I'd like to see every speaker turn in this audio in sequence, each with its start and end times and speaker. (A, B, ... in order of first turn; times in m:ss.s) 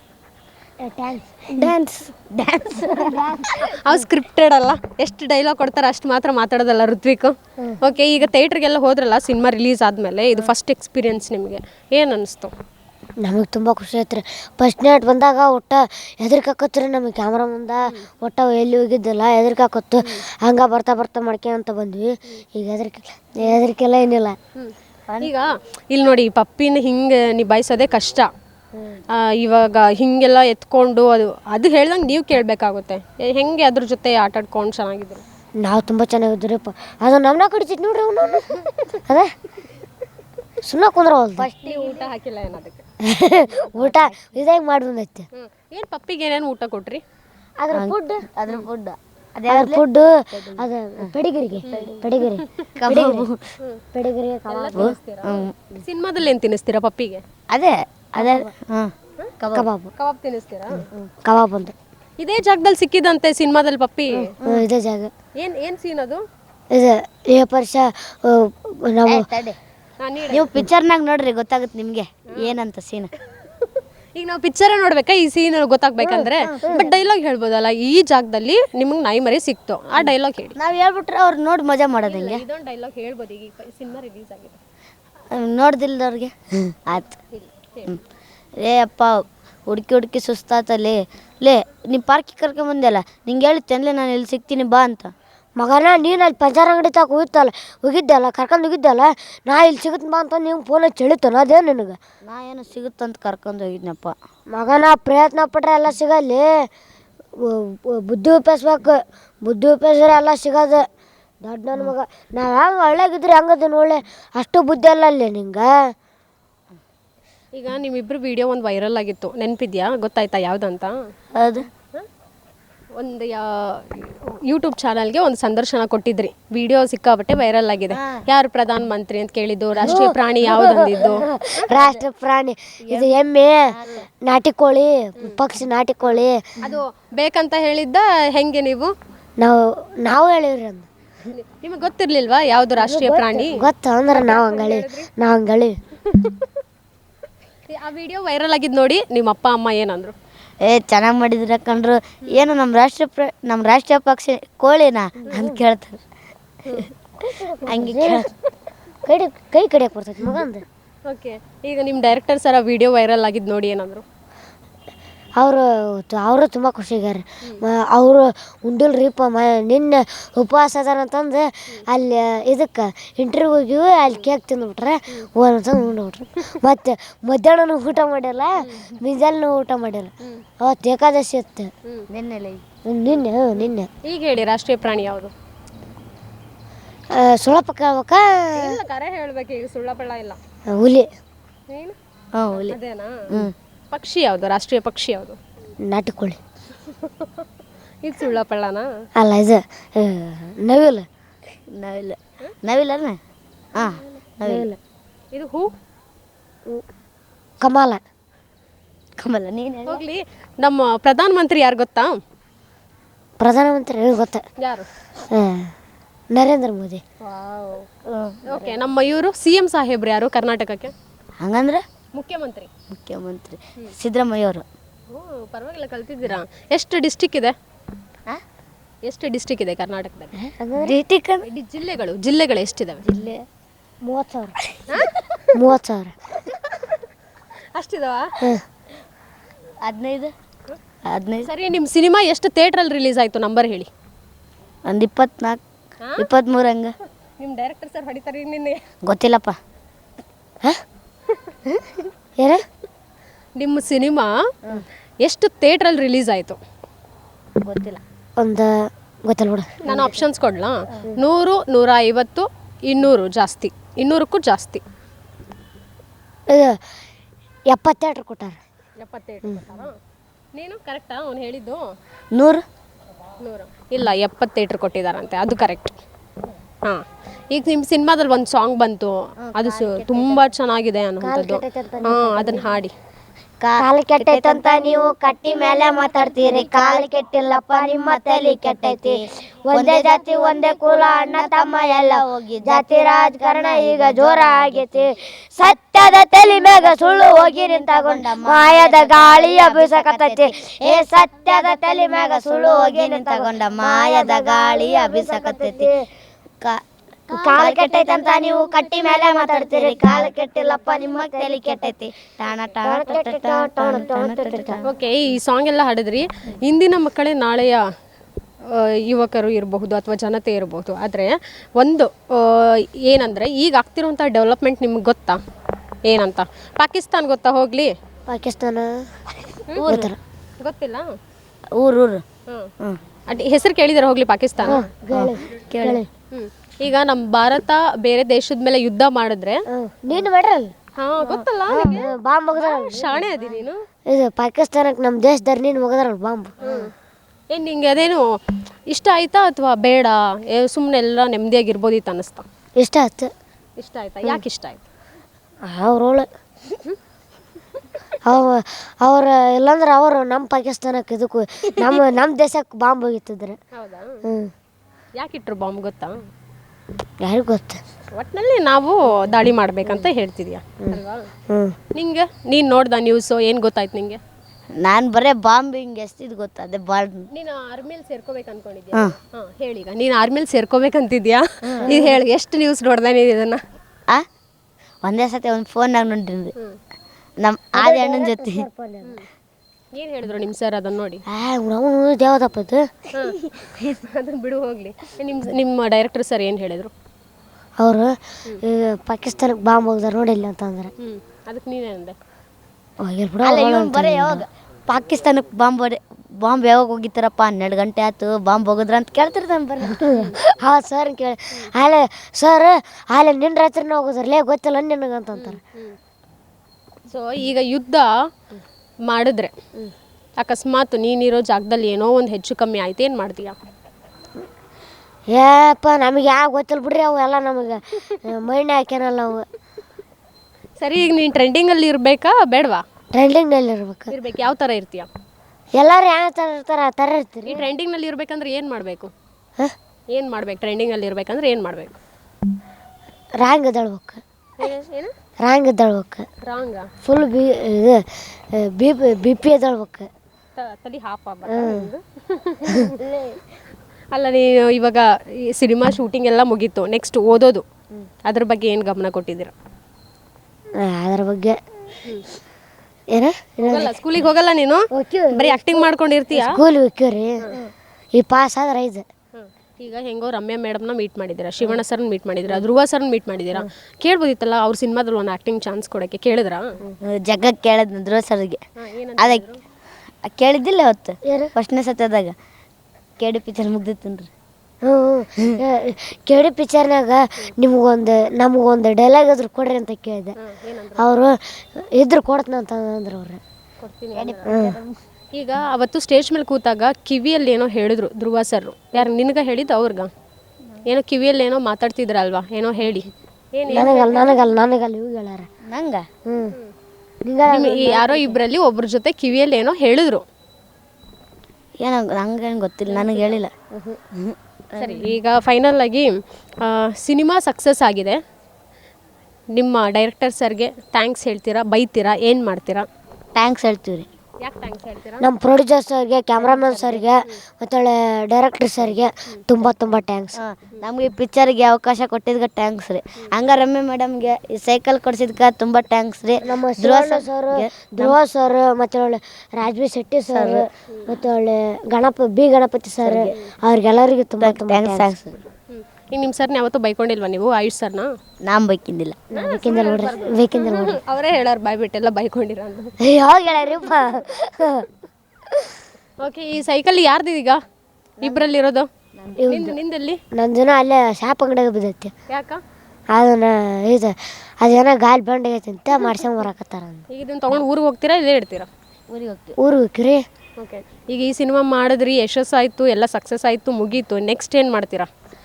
0:00.8-0:01.8 A
0:01.6-0:03.5 B
0:02.8-0:04.0 A
0:03.7-0:12.5 C
0:13.2-0:24.4 A
0:24.6-0:28.3 C
0:29.1-0:35.2 C
0:35.6-0:38.5 A
0:38.5-0:38.9 C
0:40.6-0:41.5 A
0:41.4-0:42.0 B
0:41.6-0:42.8 C
0:43.1-0:45.3 A
0:43.8-0:44.2 B
0:45.4-0:47.0 C
0:47.6-0:48.3 A
0:47.7-0:51.1 B
0:49.5-0:53.3 A
0:51.6-0:52.4 C
0:52.8-0:53.4 B
0:53.9-0:54.9 A
0:54.5-0:57.2 C
0:54.8-0:55.6 B
0:57.5-0:59.7 B
0:58.2-0:58.5 A
0:59.5-0:59.9 A
1:00.0-1:00.8 C
1:01.2-1:01.8 A
1:02.2-1:04.3 C
1:04.2-1:05.1 A
1:05.4-1:06.2 C
1:06.7-1:09.3 A
1:09.1-1:09.6 B
1:10.0-1:10.5 C
1:10.3-1:13.1 B
1:13.6-1:20.6 C
1:16.0-1:16.9 A
1:16.4-1:16.9 B
1:20.0-1:22.4 B
1:22.1-1:24.6 C
1:25.3-1:27.1 B
1:27.3-1:27.9 C
1:28.6-1:35.1 B
1:35.6-1:42.0 A
1:42.2-1:44.1 B
1:44.5-1:46.7 A
1:47.4-1:50.9 A
1:51.4-1:55.7 A
1:57.6-2:00.9 C
2:01.4-2:01.7 B
2:03.0-2:11.7 C
2:07.9-2:08.2 B
2:09.8-2:16.6 A
2:12.9-2:14.0 B
2:16.1-2:18.9 C
2:19.4-2:20.9 A
2:21.3-2:25.1 C
2:22.8-2:25.8 A
2:26.1-2:26.4 C
2:27.7-2:30.2 C
2:30.6-2:36.0 B
2:35.3-2:35.6 A
2:37.3-2:38.3 A
2:37.7-2:38.3 B
2:39.0-2:40.6 A
2:41.1-2:44.0 C
2:45.4-3:01.7 A
2:58.6-2:59.0 C
3:02.1-3:02.6 B
3:02.8-3:03.9 A
3:03.6-3:05.3 C
3:07.1-3:08.8 A
3:08.6-3:10.4 C
3:10.7-3:11.1 A
3:11.7-3:12.0 C
3:12.4-3:12.8 B
3:12.5-3:13.3 C
3:13.9-3:15.4 C
3:15.8-3:16.4 A
3:16.8-3:17.5 C
3:18.0-3:18.9 C
3:19.2-3:21.1 A
3:21.7-3:23.2 B
3:23.8-3:24.7 B
3:24.4-3:24.8 A
3:25.3-3:25.7 C
3:27.6-3:28.0 A
3:29.2-3:30.0 B
3:29.9-3:32.2 C
3:33.4-3:34.4 A
3:34.6-3:34.9 C
3:35.3-3:35.7 A
3:36.3-3:37.0 A
3:37.2-3:37.9 C
3:38.1-3:38.7 B
3:38.5-3:40.9 C
3:41.4-3:41.8 B
3:42.2-3:42.7 C
3:42.9-3:44.6 B
3:45.1-3:47.6 C
3:49.0-3:50.3 C
3:50.4-3:50.9 A
3:50.8-3:51.4 B
3:51.4-3:53.0 C
3:53.0-3:53.4 B
3:54.0-3:54.6 A
3:54.9-3:55.4 C
3:55.6-3:56.2 A
3:56.5-3:57.0 C
3:57.8-3:58.3 C
3:59.8-4:00.3 B
4:01.1-4:01.5 B
4:01.4-4:03.9 C
4:04.9-4:05.6 B
4:06.2-4:06.9 B
4:07.4-4:08.8 C
4:09.0-4:09.6 B
4:11.3-4:11.6 C
4:13.6-4:14.3 C
4:15.2-4:16.6 C
4:17.6-4:18.0 B
4:18.4-4:20.0 A
4:19.9-4:24.8 C
4:26.5-4:26.8 A
4:27.7-4:28.6 A
4:29.0-4:29.9 C
4:30.6-4:31.9 C
4:32.3-4:32.6 B
4:33.4-4:36.0 C
4:36.9-4:42.9 C
4:39.4-4:40.4 B
4:41.2-4:42.7 A
4:43.6-4:55.0 B
4:43.8-5:06.1 A
4:56.4-5:05.9 B
5:06.6-5:14.9 B
5:07.3-5:11.9 A
5:12.8-5:14.8 A
5:14.8-5:17.8 C
5:18.7-5:25.4 C
5:26.1-5:27.9 C
5:28.3-5:29.0 A
5:29.7-5:30.1 B
5:29.8-5:30.2 A
5:30.6-5:31.0 C
5:31.8-5:32.2 B
5:33.3-5:34.9 C
5:34.6-5:36.1 A
5:34.7-5:36.0 B
5:36.3-5:39.6 C
5:39.7-5:40.7 A
5:41.0-5:43.8 C
5:41.7-5:43.3 A
5:44.1-5:46.9 A
5:46.6-5:46.9 C
5:47.5-5:48.2 C
5:48.9-5:52.4 C
5:52.8-5:53.3 A
5:53.8-5:54.8 C
5:55.7-5:56.3 A
5:58.3-6:03.6 A
6:03.7-6:04.2 C
6:04.3-6:04.5 A
6:05.2-6:06.2 C
6:07.2-6:07.8 A
6:08.2-6:11.3 C
6:10.8-6:11.8 A
6:12.0-6:14.2 C
6:14.8-6:17.3 B
6:17.3-6:23.6 C
6:21.7-6:22.2 B
6:21.8-6:22.1 A
6:25.0-6:26.5 B
6:27.4-6:28.7 B
6:27.8-6:29.2 A
6:30.0-6:31.2 C
6:31.3-6:32.9 A
6:33.6-6:33.9 B
6:34.0-6:36.9 C
6:37.8-6:40.9 A
6:41.0-6:42.2 C
6:43.0-6:44.4 A
6:43.4-6:50.1 B
6:49.9-6:55.6 A
6:50.1-6:50.4 C
6:55.4-6:56.0 C
6:57.1-6:58.1 C
6:59.1-6:59.5 C
7:00.4-7:03.6 C
7:05.3-7:09.5 A
7:10.8-7:12.8 C
7:13.1-7:14.1 A
7:14.1-7:15.1 C
7:15.8-7:17.6 A
7:17.5-7:19.1 C
7:20.1-7:22.0 C
7:23.4-7:24.2 A
7:24.6-7:25.1 C
7:25.4-7:26.3 A
7:26.4-7:26.9 C
7:27.0-7:30.1 A
7:30.6-7:33.2 C
7:31.5-7:31.9 A
7:34.1-7:37.6 C
7:38.2-7:39.5 C
7:40.8-7:41.6 A
7:43.1-7:43.9 A
7:43.6-7:46.6 C
7:44.9-7:47.5 A
7:48.2-7:49.0 A
7:49.3-7:56.7 C
7:57.0-7:58.6 B
7:58.8-7:59.6 C
7:59.2-7:59.4 B
8:00.2-8:02.4 B
8:01.2-8:01.5 A
8:03.2-8:04.3 B
8:04.8-8:10.4 A
8:10.4-8:11.1 C
8:11.0-8:13.4 A
8:13.8-8:14.5 C
8:14.1-8:14.9 B
8:14.5-8:14.8 A
8:15.4-8:20.1 C
8:20.9-8:24.5 C
8:23.7-8:25.5 A
8:25.7-8:26.1 B
8:26.3-8:26.5 A
8:27.2-8:28.4 A
8:27.5-8:30.2 C
8:31.8-8:33.5 B
8:32.9-8:33.4 C
8:33.7-8:34.0 A
8:34.2-8:35.1 B
8:34.8-8:38.2 C
8:39.5-8:42.9 C
8:43.4-8:44.1 B
8:44.4-8:45.3 C
8:45.2-8:50.4 A
8:46.4-8:47.0 B
8:49.3-8:49.7 C
8:50.4-8:58.2 B
8:56.4-9:05.1 A
9:00.3-9:00.7 B
9:00.9-9:01.2 C
9:03.0-9:03.4 B
9:04.4-9:05.4 B
9:05.7-9:08.1 C
9:08.4-9:09.2 B
9:09.3-9:11.0 A
9:09.3-9:12.9 C
9:13.0-9:14.9 A
9:16.2-9:17.6 C
9:18.2-9:18.9 C
9:19.2-9:19.4 B
9:19.4-9:19.8 A
9:19.5-9:20.2 C
9:20.4-9:22.1 A
9:22.3-9:22.6 C
9:23.1-9:27.0 A
9:27.1-9:28.7 C
9:29.1-9:29.6 B
9:29.6-9:30.2 A
9:30.6-9:35.1 C